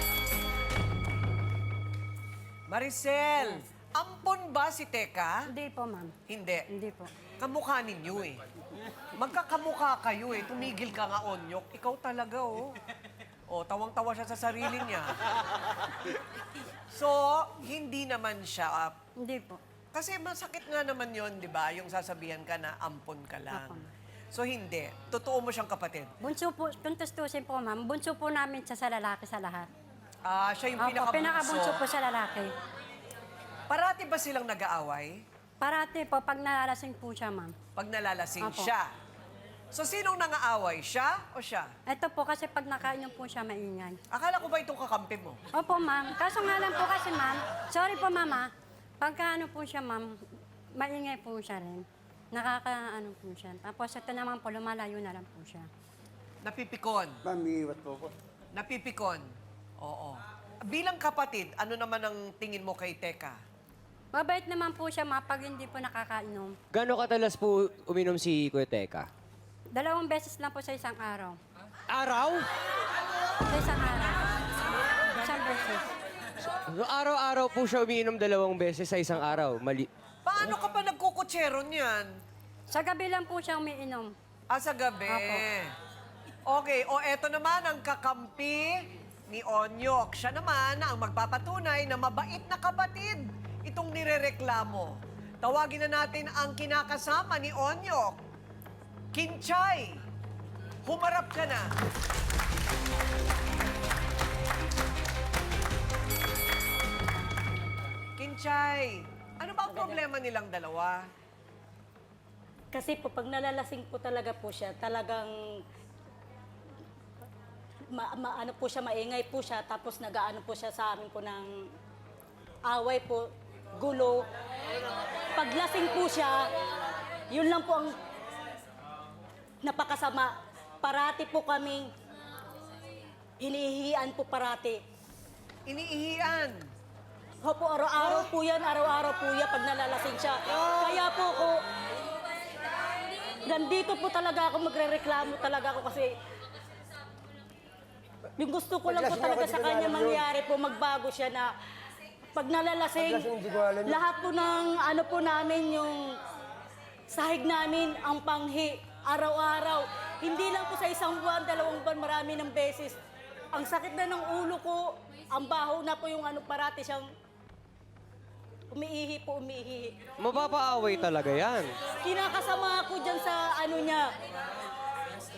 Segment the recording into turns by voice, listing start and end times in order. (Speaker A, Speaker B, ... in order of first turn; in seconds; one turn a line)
Speaker A: 2.7-5.4
Speaker B: 5.5-6.1
Speaker A: 6.3-6.7
Speaker B: 6.7-7.1
Speaker A: 7.4-8.4
Speaker A: 9.1-12.8
Speaker A: 13.5-15.2
Speaker A: 16.9-18.9
Speaker B: 19.2-19.6
Speaker A: 19.9-26.1
Speaker B: 23.5-23.9
Speaker B: 26.2-29.7
Speaker A: 30.2-31.8
Speaker B: 30.8-32.5
Speaker A: 33.7-35.2
Speaker B: 35.6-37.5
Speaker A: 37.7-38.9
Speaker B: 38.4-38.7
Speaker A: 39.7-41.7
Speaker B: 41.9-44.0
Speaker A: 44.1-45.4
Speaker B: 45.5-50.2
Speaker B: 50.7-55.7
Speaker A: 56.4-57.2
Speaker C: 57.3-58.1
Speaker A: 58.5-59.3
Speaker A: 59.8-63.4
Speaker B: 64.1-66.6
Speaker D: 66.8-69.0
Speaker C: 68.7-69.0
Speaker B: 69.7-71.4
Speaker D: 72.0-72.3
Speaker B: 73.5-74.3
Speaker B: 75.1-75.8
Speaker D: 76.8-79.9
Speaker C: 78.5-79.6
Speaker A: 80.2-82.1
Speaker B: 82.7-84.1
Speaker A: 84.5-85.7
Speaker B: 85.1-85.4
Speaker A: 86.5-98.2
Speaker A: 99.1-100.0
Speaker A: 100.8-101.7
Speaker A: 108.2-111.1
Speaker E: 109.7-110.0
Speaker E: 112.7-115.6
Speaker E: 117.9-121.5
Speaker E: 122.7-124.2
Speaker E: 125.3-126.5
Speaker E: 127.3-128.0
Speaker E: 129.6-131.9
Speaker E: 133.4-134.8
Speaker A: 135.7-136.7
Speaker E: 137.4-141.6
Speaker E: 143.4-146.1
Speaker E: 148.4-151.5
Speaker C: 148.9-150.2
Speaker E: 152.3-156.1
Speaker C: 153.0-154.0
Speaker E: 157.1-163.0
Speaker E: 163.5-167.1
Speaker E: 168.7-170.1
Speaker D: 170.2-171.7
Speaker E: 171.9-174.1